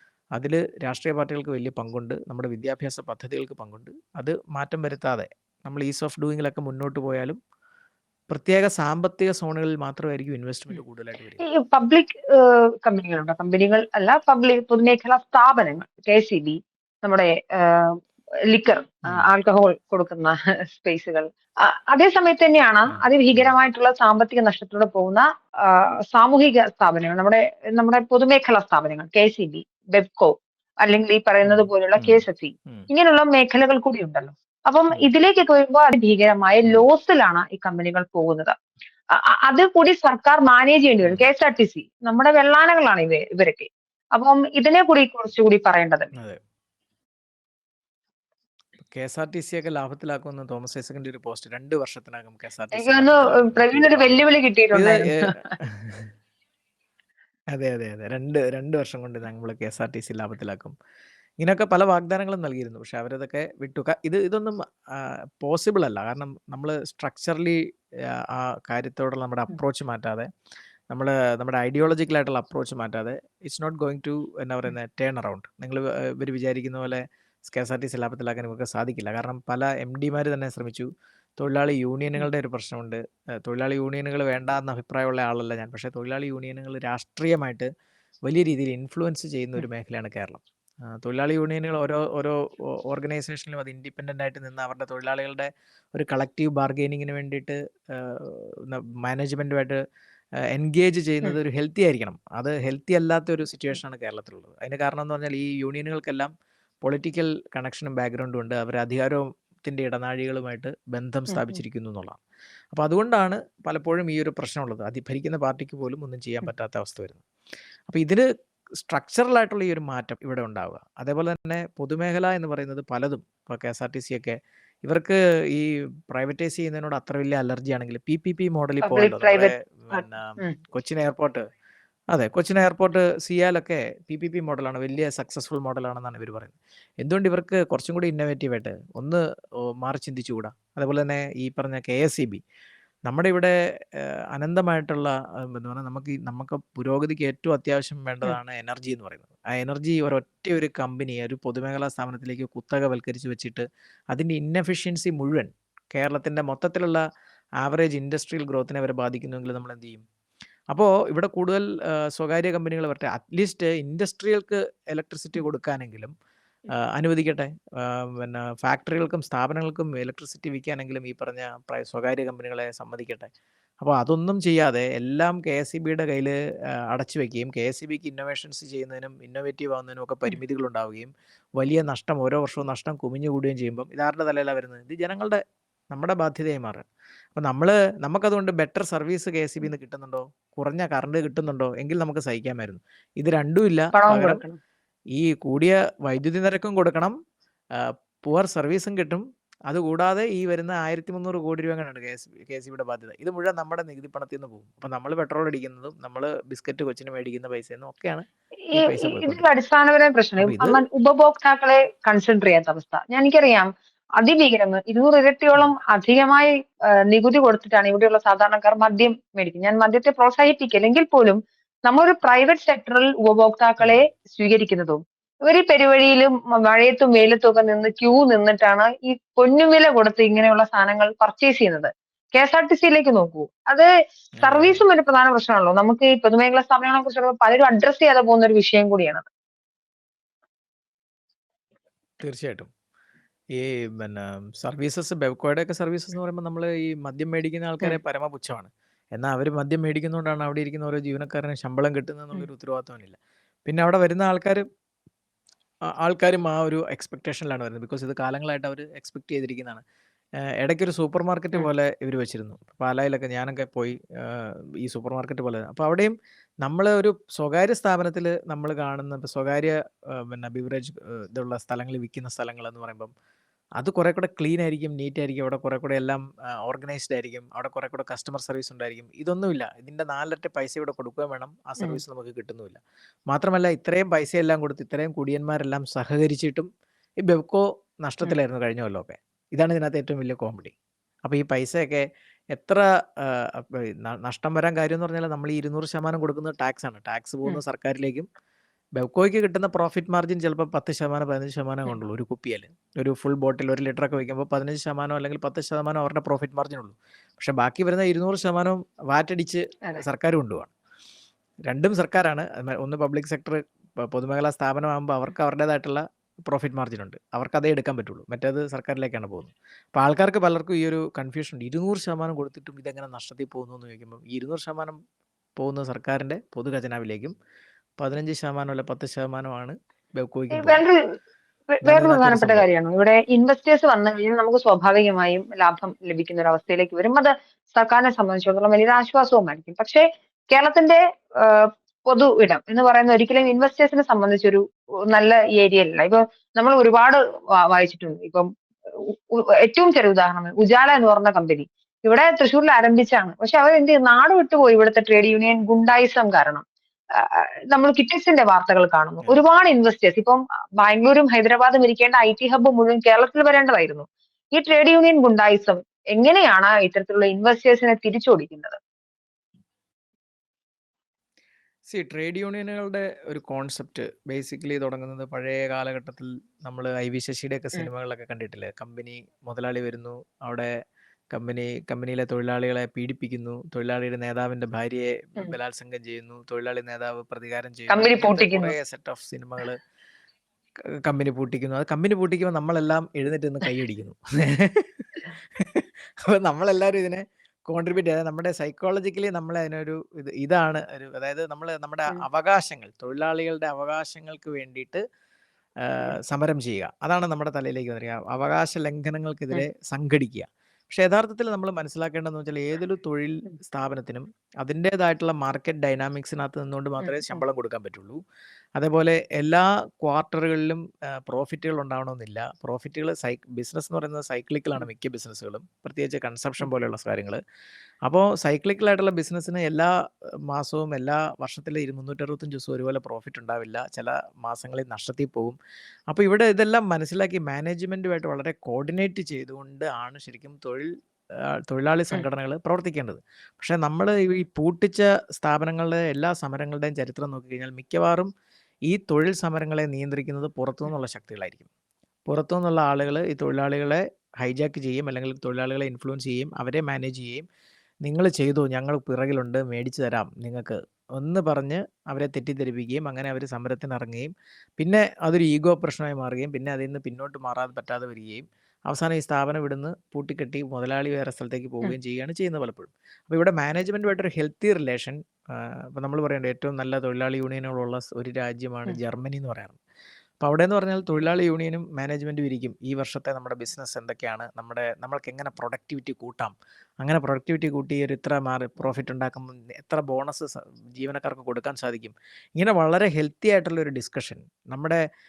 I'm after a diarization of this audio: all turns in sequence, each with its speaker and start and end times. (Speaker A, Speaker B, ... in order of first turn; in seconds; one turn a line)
Speaker A: 0.3-7.4
Speaker A: 8.3-11.4
Speaker B: 11.4-17.9
Speaker B: 18.5-38.5
Speaker A: 22.9-23.5
Speaker A: 31.4-32.9
Speaker B: 39.2-46.1
Speaker A: 41.0-41.3
Speaker A: 48.9-54.1
Speaker B: 52.7-55.5
Speaker A: 54.7-56.1
Speaker A: 57.5-60.7
Speaker A: 61.4-67.6
Speaker A: 68.1-70.3
Speaker A: 70.9-80.9
Speaker A: 81.4-87.7
Speaker A: 88.2-99.8
Speaker A: 100.5-106.3
Speaker A: 106.8-112.2
Speaker B: 111.3-111.6
Speaker A: 112.7-117.2
Speaker A: 117.9-118.2
Speaker A: 118.8-131.4
Speaker B: 128.8-130.6
Speaker A: 132.1-142.4
Speaker A: 143.1-157.0
Speaker A: 157.6-160.0
Speaker A: 160.7-166.1
Speaker A: 166.7-173.3
Speaker A: 173.8-176.3
Speaker A: 176.9-194.4
Speaker B: 193.9-194.6
Speaker A: 195.1-197.1
Speaker A: 197.7-209.4
Speaker B: 208.7-216.5
Speaker A: 210.4-210.8
Speaker B: 217.1-233.9
Speaker A: 223.8-224.0
Speaker A: 234.3-234.8
Speaker B: 234.4-239.3
Speaker A: 242.2-242.7
Speaker A: 243.5-254.6
Speaker A: 255.9-259.8
Speaker A: 260.6-273.1
Speaker A: 273.8-286.7
Speaker A: 287.2-290.7
Speaker A: 291.2-298.2
Speaker A: 299.0-310.7
Speaker A: 311.6-325.0
Speaker A: 325.6-327.3
Speaker A: 328.0-330.8
Speaker B: 330.5-331.0
Speaker B: 331.7-356.6
Speaker A: 331.8-332.7
Speaker B: 357.2-368.8
Speaker A: 371.9-380.7
Speaker A: 381.3-389.8
Speaker B: 387.9-388.7
Speaker A: 391.0-405.0
Speaker A: 405.8-418.2
Speaker B: 417.0-417.4
Speaker A: 418.8-427.4
Speaker A: 428.0-429.9
Speaker A: 430.5-435.6
Speaker A: 436.1-440.9
Speaker A: 441.7-448.3
Speaker A: 448.9-451.7
Speaker A: 452.3-457.4
Speaker A: 458.0-479.8
Speaker A: 480.4-495.0